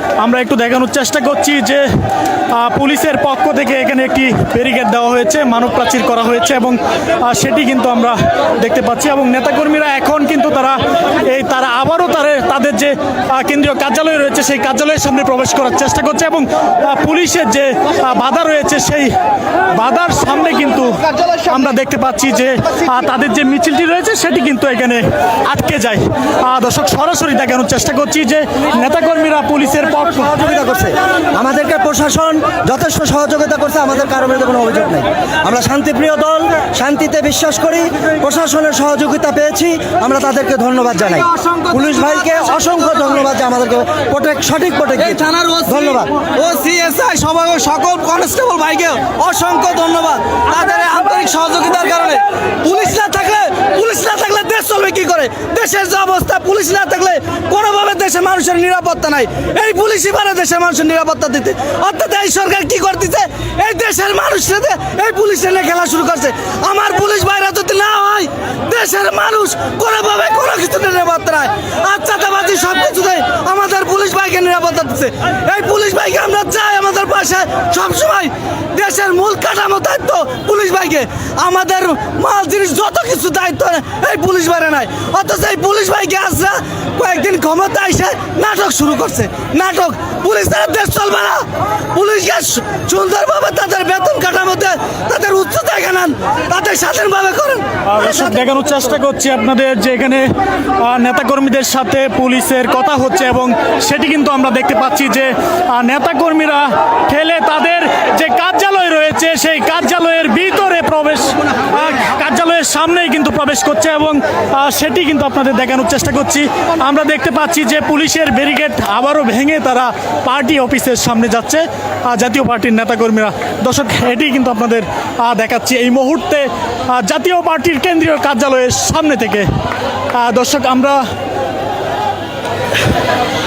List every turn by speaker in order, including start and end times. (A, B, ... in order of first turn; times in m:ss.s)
0:00.2-0:01.9 A
0:02.5-0:19.1 A
0:19.7-0:30.4 A
0:30.4-0:41.3 B
0:41.7-0:42.2 C
0:42.2-0:45.1 B
0:45.1-1:31.4 C
1:32.0-1:37.6 C
1:37.9-1:40.3 A
1:40.8-2:09.5 A
2:10.2-2:11.0 A